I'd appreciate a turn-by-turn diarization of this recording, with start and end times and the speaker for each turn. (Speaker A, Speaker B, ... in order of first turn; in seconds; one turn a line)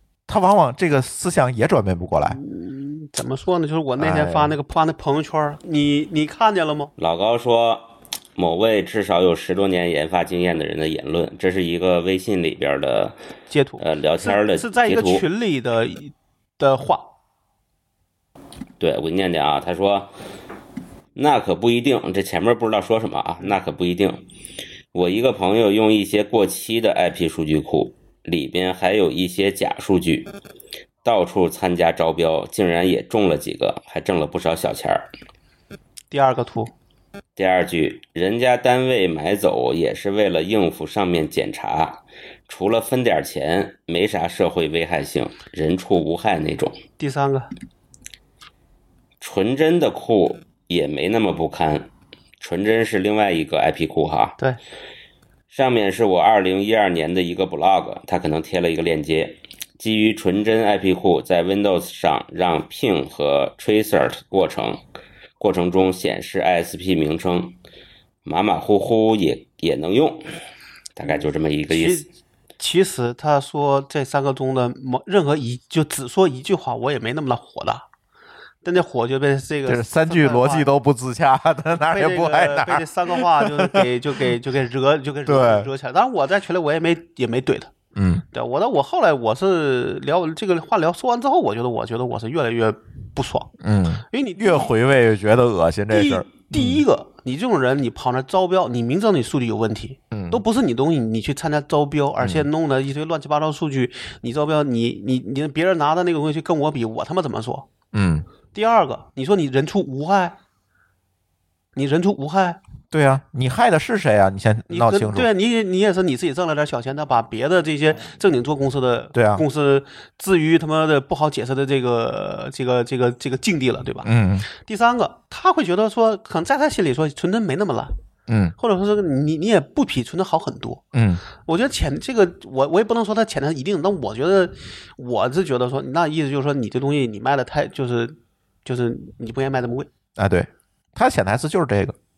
Speaker A: 0.3-2.4
Speaker B: 2.3-6.9
Speaker A: 4.0-4.5
Speaker C: 7.0-13.2
Speaker B: 13.5-17.1
Speaker C: 13.8-15.2
Speaker C: 18.8-20.1
Speaker C: 21.2-24.2
Speaker C: 24.9-30.3
Speaker C: 31.0-35.1
Speaker B: 36.1-36.7
Speaker C: 37.4-46.8
Speaker B: 47.0-47.5
Speaker C: 49.2-51.9
Speaker C: 52.4-54.4
Speaker C: 55.5-64.8
Speaker C: 65.4-67.5
Speaker C: 68.2-70.3
Speaker C: 71.0-72.1
Speaker B: 71.0-72.1
Speaker B: 72.6-77.9
Speaker B: 78.6-80.7
Speaker A: 79.7-83.9
Speaker B: 81.8-87.7
Speaker A: 85.3-85.7
Speaker A: 88.0-88.2
Speaker B: 88.3-93.5
Speaker A: 93.6-96.8
Speaker B: 94.1-94.7
Speaker B: 95.9-107.7
Speaker A: 100.1-100.4
Speaker A: 102.2-102.5
Speaker A: 107.9-108.3
Speaker B: 108.5-110.4
Speaker B: 111.8-112.6
Speaker A: 112.9-115.3
Speaker B: 114.7-127.9
Speaker A: 119.1-119.4
Speaker A: 124.0-124.5
Speaker A: 128.3-128.6
Speaker B: 128.6-130.9
Speaker A: 130.9-131.2
Speaker B: 131.4-139.9
Speaker A: 140.2-142.0